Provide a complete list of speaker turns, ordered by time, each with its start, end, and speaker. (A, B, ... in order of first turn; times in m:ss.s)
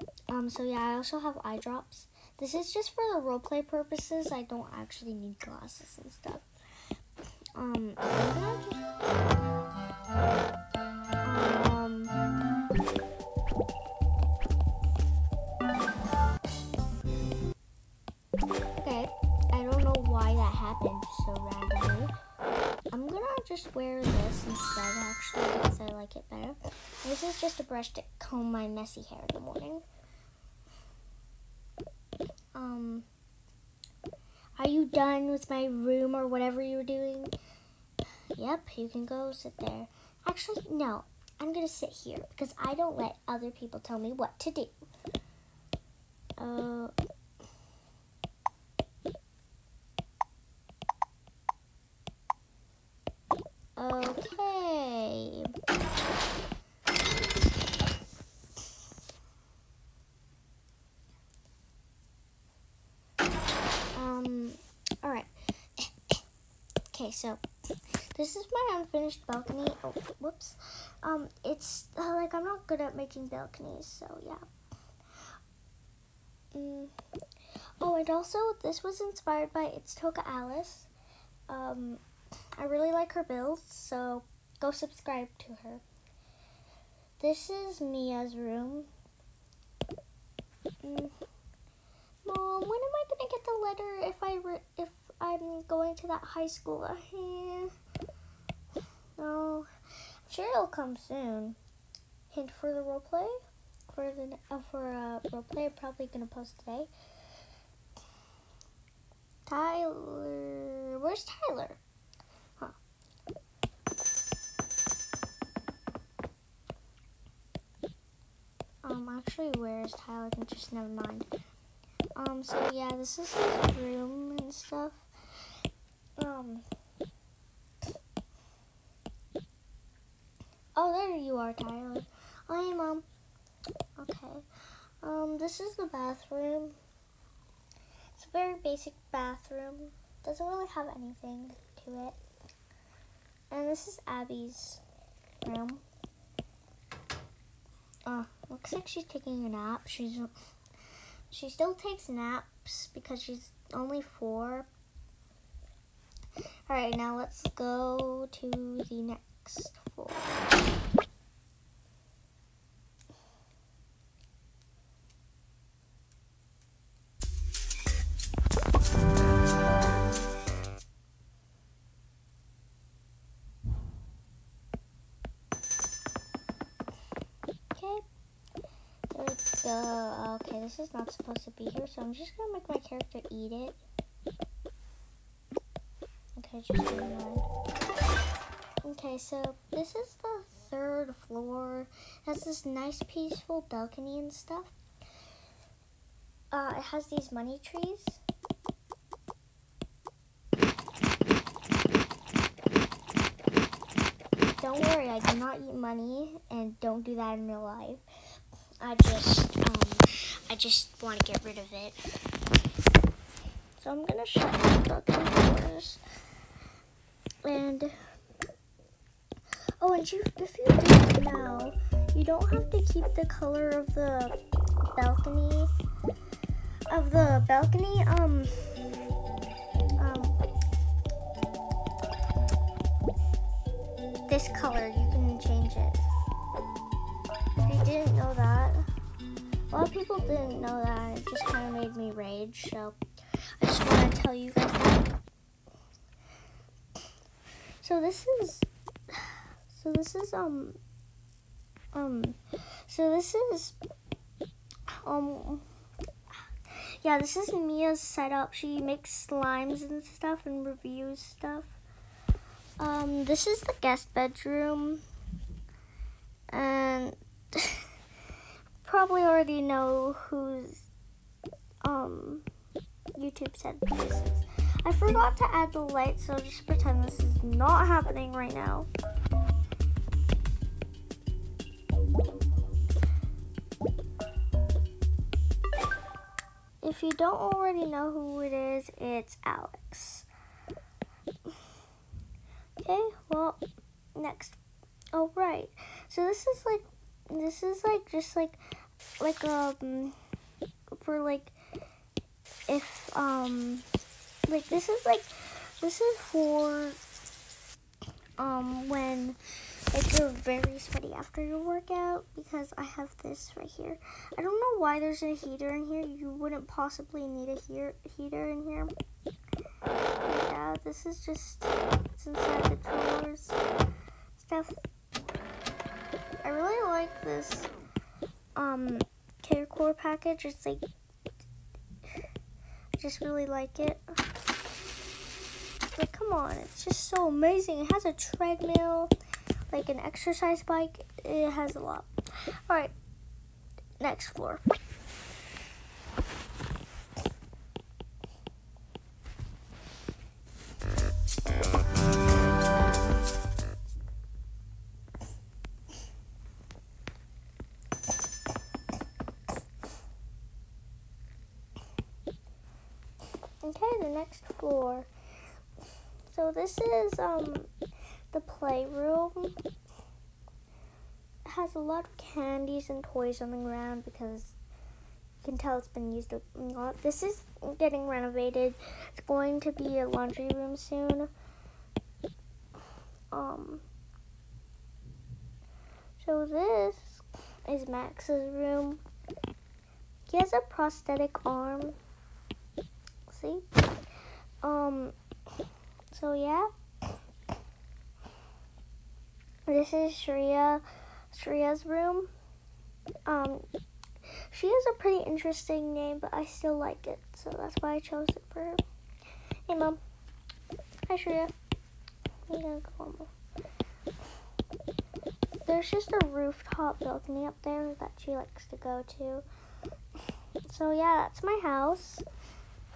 0:00.3-0:06.5 A
0:07.6-0:09.0 A
0:11.2-0:12.2 A
0:18.8-0:22.1 A
0:22.9-0:29.8 A
0:32.5-0:33.0 A
0:34.6-0:37.3 A
0:38.3-0:44.8 A
0:46.4-0:46.9 A
0:53.8-0:55.5 A
1:03.9-1:06.2 A
1:06.9-1:07.4 A
1:08.1-1:14.4 A
1:16.5-1:16.9 A
1:17.8-1:20.9 A
1:21.5-1:22.0 A
1:22.6-1:25.8 A
1:27.2-1:28.9 A
1:30.8-1:31.1 A
1:32.2-1:37.7 A
1:39.2-1:39.7 A
1:40.3-1:41.6 A
1:42.3-1:43.3 A
1:43.9-1:46.9 A
1:49.5-1:51.8 A
1:58.8-2:01.3 A
2:02.2-2:05.1 A
2:06.2-2:06.7 A
2:10.8-2:13.0 A
2:14.0-2:14.4 A
2:15.0-2:16.8 A
2:18.2-2:22.2 A
2:23.5-2:24.8 A
2:25.4-2:25.8 A
2:28.1-2:30.3 A
2:31.3-2:34.7 A
2:36.7-2:40.4 A
2:57.7-2:58.0 A
2:59.1-3:03.8 A
3:06.4-3:07.5 A
3:08.8-3:14.7 A
3:16.5-3:18.2 A
3:24.5-3:28.0 A
3:28.8-3:32.0 A
3:33.8-3:36.0 A
3:37.4-3:37.9 A
3:39.8-3:44.4 A
3:44.9-3:45.7 A
3:46.9-3:48.8 A
3:50.0-3:50.4 A
3:54.3-3:56.1 A
3:57.6-3:58.8 A
3:59.7-4:03.0 A
4:03.6-4:05.1 A
4:07.8-4:10.8 A
4:11.9-4:13.8 A
4:15.0-4:15.7 A
4:17.0-4:21.8 A
4:22.8-4:25.0 A
4:26.5-4:27.8 A
4:28.8-4:30.9 A
4:31.8-4:32.5 A
4:33.2-4:38.9 A
4:46.8-4:50.3 A
4:52.8-4:53.6 A
4:54.2-4:54.6 A
4:55.1-4:58.6 A
4:59.2-5:00.2 A
5:01.0-5:01.6 A
5:02.7-5:03.8 A
5:04.5-5:07.0 A
5:08.4-5:09.4 A
5:09.9-5:18.9 A
5:20.2-5:23.6 A
5:24.4-5:24.8 A
5:26.4-5:27.7 A
5:28.6-5:30.8 A
5:33.0-5:34.0 A
5:36.0-5:39.1 A
5:39.7-5:42.1 A
5:42.7-5:42.9 A
5:44.0-5:44.7 A
6:03.6-6:05.1 A
6:06.3-6:07.7 A
6:08.3-6:09.6 A
6:11.5-6:14.6 A
6:15.4-6:21.3 A
6:23.3-6:23.8 A
6:26.2-6:29.0 A
6:30.3-6:32.0 A
6:33.3-6:33.9 A
6:34.6-6:35.2 A
6:36.1-6:36.7 A
6:39.7-6:42.3 A
6:43.3-6:43.7 A
6:44.5-6:48.8 A
6:49.7-6:50.0 A
6:51.1-6:51.5 A
6:52.5-6:53.3 A
6:55.6-6:59.4 A
7:00.7-7:02.2 A